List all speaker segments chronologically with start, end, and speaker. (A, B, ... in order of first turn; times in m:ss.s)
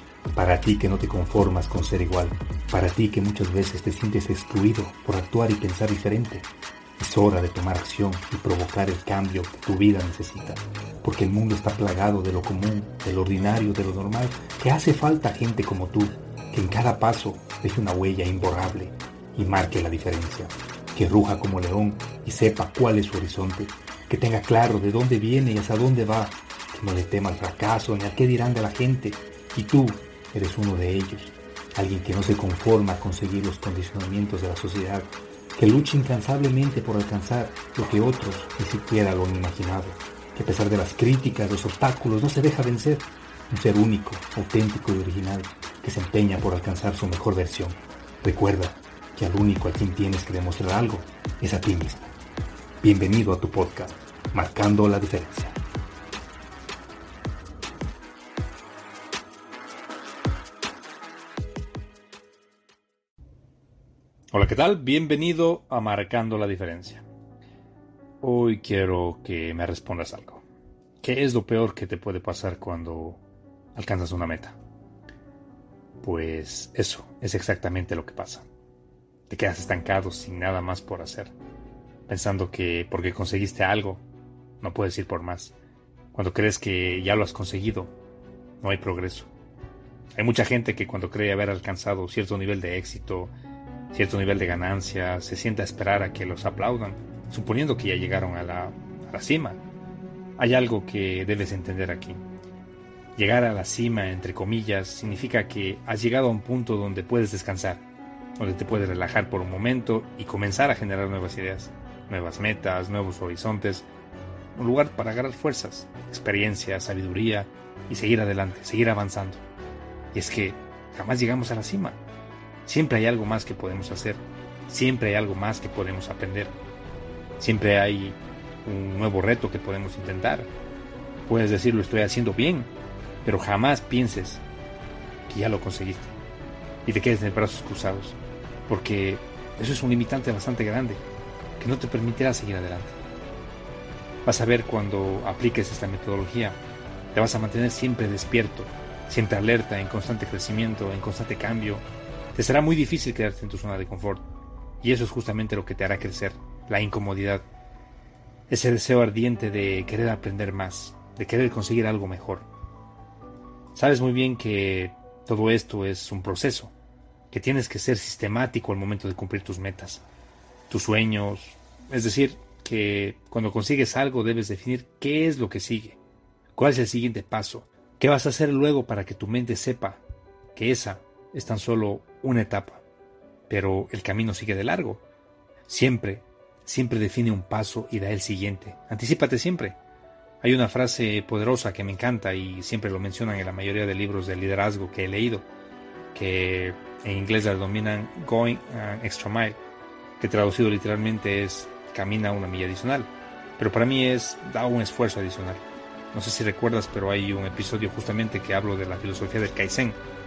0:00.3-0:06.5 A
0:07.0-0:52.1 A
0:52.8-0:55.6 A
1:04.3-1:07.0 A
1:08.2-1:10.4 A
1:11.0-1:13.2 A
1:13.7-1:14.6 A
1:16.0-1:18.5 A
1:19.3-1:21.3 A
1:22.1-1:24.0 A
1:24.6-1:25.5 A
1:26.1-1:27.9 A
1:28.6-1:29.3 A
1:30.1-1:33.3 A
1:33.9-1:39.6 A
1:40.4-1:42.2 A
1:43.2-1:47.8 A
1:48.4-1:53.9 A
1:54.5-1:59.4 A
2:00.1-2:02.0 A
2:02.6-2:06.6 A
2:07.4-2:10.5 A
2:11.3-2:12.7 A
2:13.2-2:14.4 A
2:15.3-2:16.1 A
2:16.8-2:21.0 A
2:21.6-2:23.0 A
2:24.2-2:26.6 A
2:27.1-2:34.2 A
2:34.8-2:37.5 A
2:38.5-2:42.5 A
2:43.7-2:46.7 A
2:47.3-2:50.0 A
2:50.7-2:56.0 A
2:56.5-3:00.0 A
3:00.5-3:02.8 A
3:03.5-3:05.0 A
3:05.7-3:09.8 A
3:10.4-3:15.5 A
3:16.1-3:19.6 A
3:20.2-3:30.0 A